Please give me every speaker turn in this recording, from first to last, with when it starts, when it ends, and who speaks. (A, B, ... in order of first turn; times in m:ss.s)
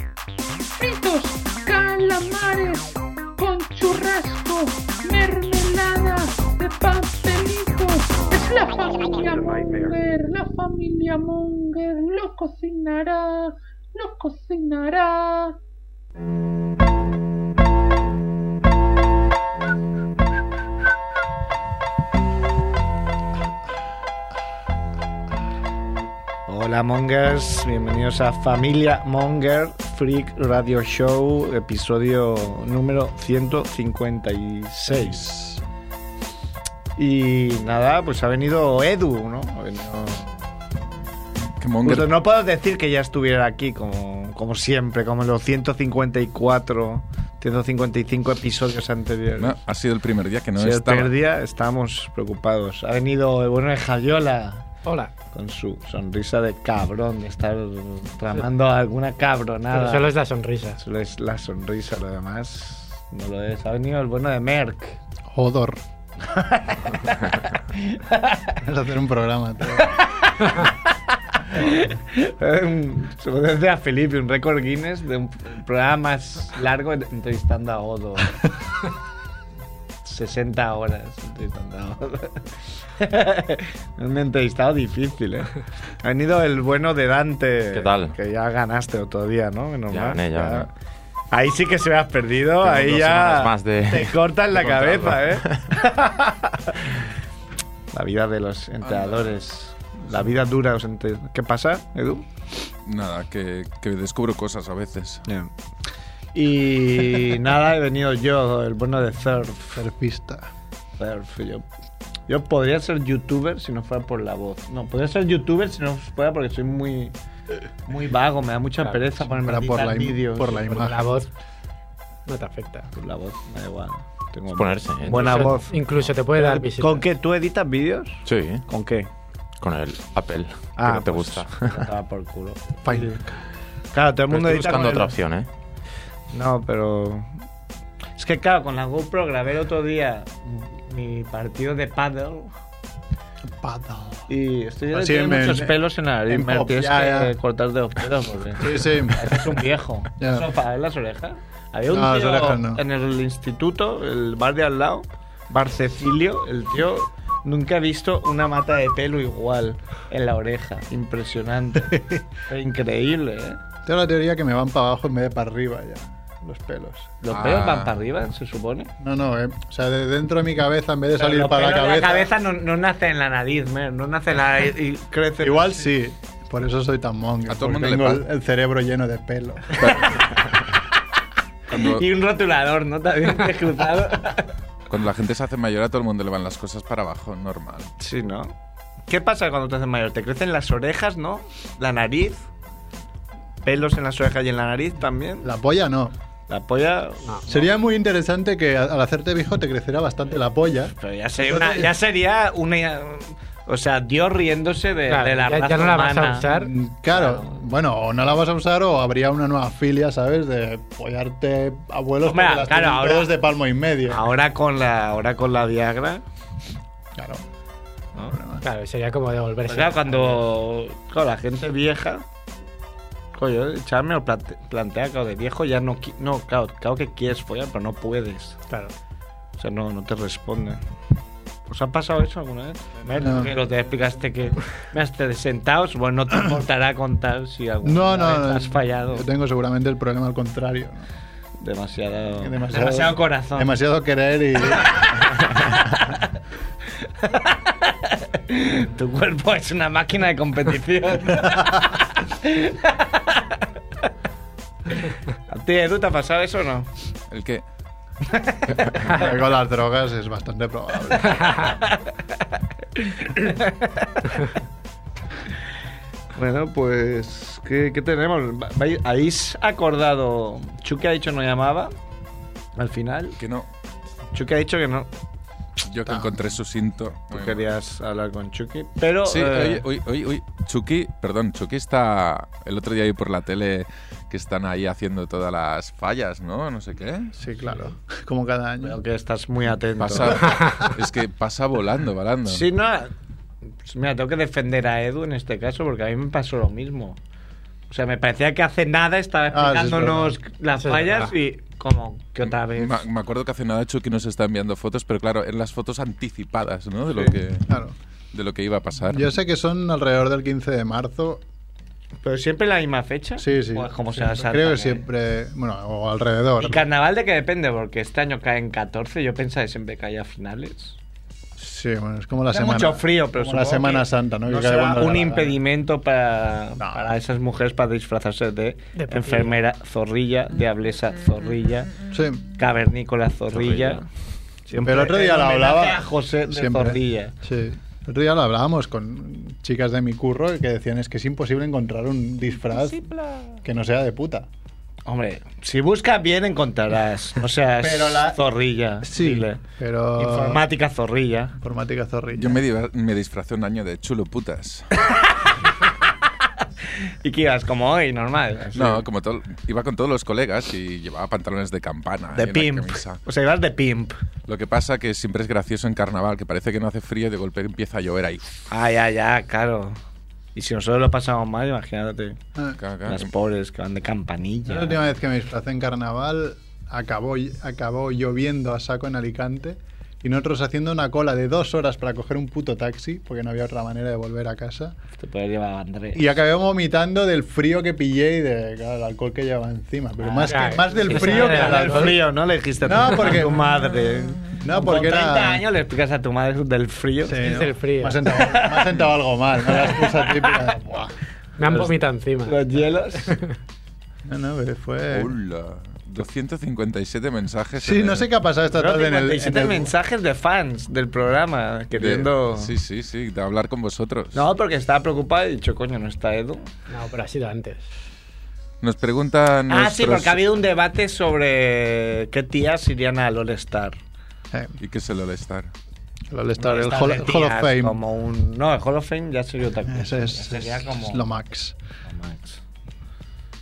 0:00.7-0:15.6 A
0:26.5-0:35.2 B
0:34.9-0:35.6 C
0:37.0-0:40.4 B
0:41.6-0:42.2 D
0:41.8-0:49.6 B
0:49.4-0:51.1 D
0:50.6-0:54.7 B
0:54.8-0:55.1 E
0:55.3-1:00.1 B
0:59.7-1:00.8 E
1:00.8-1:05.0 B
1:05.3-1:05.8 C
1:06.2-1:08.6 B
1:08.6-1:09.9 C
1:09.7-1:18.4 B
1:20.0-1:30.7 B
1:27.7-1:28.1 F
1:29.9-1:30.7 F
1:31.3-1:37.0 B
1:32.6-1:35.8 F
1:37.9-1:42.2 B
1:38.8-1:39.3 D
1:42.8-1:45.2 D
1:46.3-1:49.8 B
1:49.7-1:50.5 C
1:51.0-1:51.6 B
1:52.3-1:57.1 B
1:57.8-2:00.8 B
1:59.3-2:01.1 C
2:00.6-2:01.3 E
2:02.2-2:02.9 E
2:02.9-2:09.1 B
2:04.5-2:05.6 F
2:05.1-2:07.1 E
2:08.2-2:08.6 F
2:09.6-2:11.8 F
2:10.8-2:13.2 B
2:12.8-2:13.3 C
2:13.9-2:15.1 B
2:14.3-2:15.5 F
2:16.3-2:17.3 B
2:18.2-2:22.5 B
2:23.5-2:24.3 C
2:24.3-2:43.6 B
2:24.9-2:27.3 C
2:28.6-2:29.5 C
2:30.2-2:30.5 C
2:31.9-2:32.8 C
2:41.9-2:42.2 C
2:43.8-2:47.1 C
2:47.2-2:48.9 B
2:47.3-2:47.9 D
2:49.0-2:52.3 C
2:51.2-2:55.8 B
2:55.4-2:59.9 C
2:57.5-2:58.2 D
2:59.8-3:00.2 B
2:59.8-3:00.2 D
3:01.7-3:04.5 B
3:04.9-3:07.9 D
3:08.0-3:08.5 B
3:09.1-3:12.5 B
3:13.6-3:15.5 B
3:15.4-3:16.1 C
3:16.5-3:17.6 B
3:17.5-3:21.9 C
3:21.0-3:26.5 B
3:25.1-3:26.7 E
3:26.5-3:34.2 C
3:27.1-3:27.6 B
3:32.2-3:33.4 B
3:34.1-3:36.2 B
3:37.1-3:37.4 C
3:38.2-3:38.6 C
3:38.6-3:40.4 E
3:39.7-3:42.2 B
3:43.3-3:48.6 B
3:49.6-3:50.8 B
3:51.7-3:59.3 B
3:53.2-3:53.5 C
3:57.8-4:01.1 C
4:01.6-4:03.7 B
4:02.4-4:05.4 C
4:05.0-4:06.1 B
4:07.2-4:13.6 B
4:11.4-4:11.7 C
4:14.9-4:16.9 B
4:17.3-4:17.6 D
4:18.2-4:19.3 B
4:19.0-4:21.6 C
4:21.5-4:24.4 B
4:26.3-4:31.9 B
4:32.8-4:33.4 B
4:33.4-4:33.7 D
4:34.3-4:35.1 B
4:35.8-4:37.6 D
4:36.0-4:36.5 C
4:37.3-4:39.8 B
4:39.2-4:47.3 D
4:47.4-4:49.0 C
4:48.8-4:50.5 B
4:50.0-4:52.6 D
4:52.5-4:53.1 B
4:53.8-4:57.2 B
4:57.9-5:03.0 B
4:59.5-5:00.4 C
5:00.8-5:01.3 E
5:02.5-5:07.7 D
5:07.7-5:08.0 C
5:08.3-5:09.3 D
5:09.1-5:11.4 C
5:12.2-5:15.0 B
5:13.4-5:16.8 C
5:16.6-5:21.0 B
5:21.6-5:25.6 C
5:22.5-5:31.9 B
5:26.8-5:27.1 C
5:29.0-5:29.5 E
5:32.1-5:32.4 C
5:32.6-5:34.0 B
5:33.5-5:33.9 F
5:34.7-5:37.3 B
5:34.8-5:43.1 C
5:43.6-5:44.5 C
5:45.0-5:49.6 B
5:47.8-5:48.4 C
5:49.0-5:50.6 C
5:50.2-5:51.6 B
5:51.6-5:52.6 C
5:52.4-5:54.9 D
5:55.0-5:55.5 B
5:57.0-5:59.0 B
5:58.7-6:03.2 D
6:02.3-6:04.2 B
6:04.4-6:08.5 D
6:08.7-6:10.0 B
6:10.5-6:12.4 B
6:12.8-6:13.3 D
6:13.0-6:15.0 B
6:14.6-6:25.0 C
6:25.2-6:26.3 B
6:26.1-6:32.2 C
6:30.2-6:37.6 B
6:30.4-6:32.2 E
6:32.8-6:33.9 C
6:34.4-6:35.6 C
6:37.2-6:41.2 C
6:37.4-6:38.2 E
6:38.3-6:39.0 B
6:39.6-6:40.7 B
6:41.6-6:42.6 E
6:41.6-6:43.4 B
6:44.2-6:45.4 C
6:45.1-6:48.3 D
6:47.8-6:49.9 C
6:48.7-6:52.7 B
6:51.9-6:54.4 D
6:54.3-6:56.7 B
6:56.9-6:57.9 E
6:58.8-7:00.4 D
6:59.7-7:04.0 B
7:04.5-7:04.8 C
7:04.8-7:05.7 D
7:06.3-7:08.0 C
7:06.6-7:11.2 B
7:09.8-7:11.8 C
7:12.0-7:12.6 B